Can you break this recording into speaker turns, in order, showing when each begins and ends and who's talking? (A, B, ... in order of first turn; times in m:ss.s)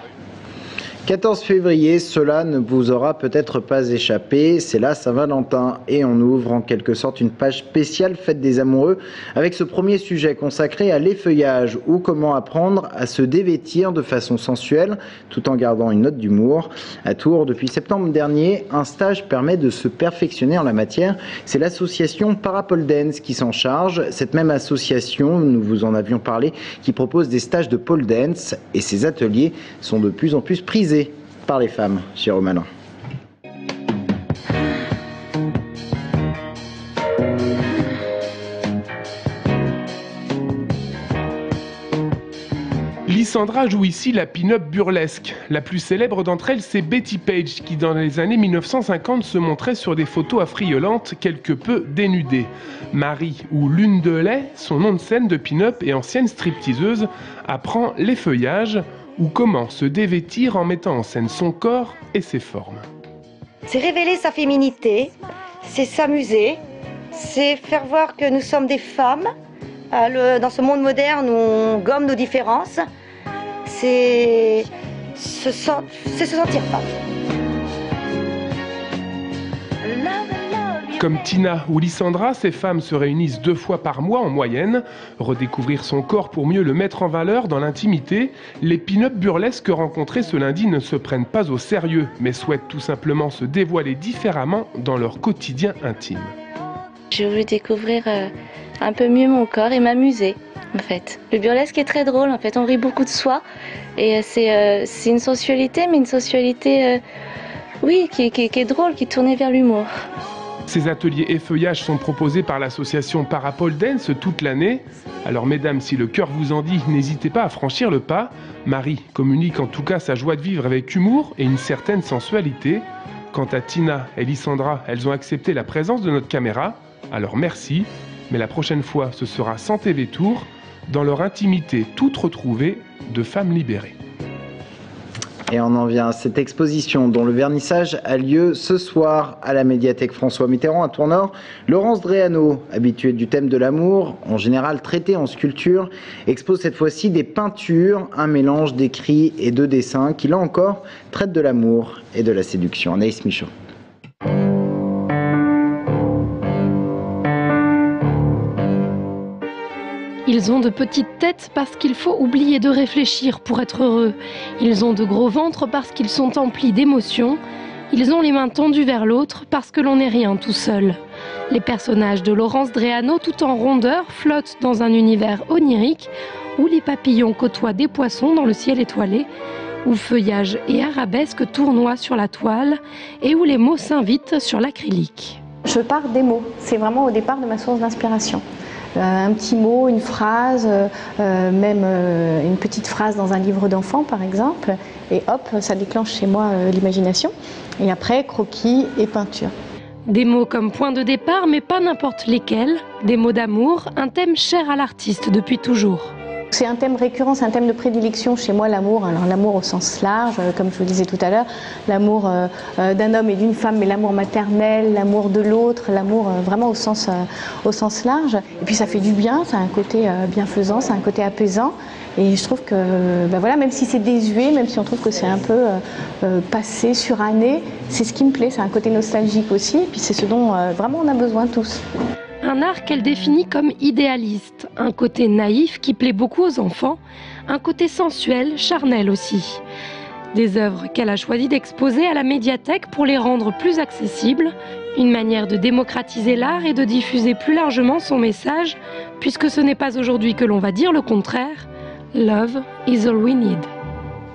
0:01.0-0:32.7 A
0:43.1-1:02.8 B
1:03.7-1:05.1 C
1:05.6-1:06.6 C
1:07.1-1:09.3 C
1:09.9-1:12.8 C
1:13.6-1:16.8 C
1:21.0-1:36.3 B
1:37.1-1:43.4 D
1:44.0-1:47.0 D
1:47.8-1:49.9 D
1:50.7-2:13.9 B
2:15.5-2:33.5 A
2:40.3-2:47.4 E
2:47.9-2:51.0 E
2:51.5-2:59.3 E
2:59.8-3:05.4 E
3:05.7-3:08.4 F
3:09.0-3:19.5 F
3:20.0-3:26.1 E
3:26.5-3:51.8 F
3:52.4-3:59.6 E
4:00.3-4:13.7 E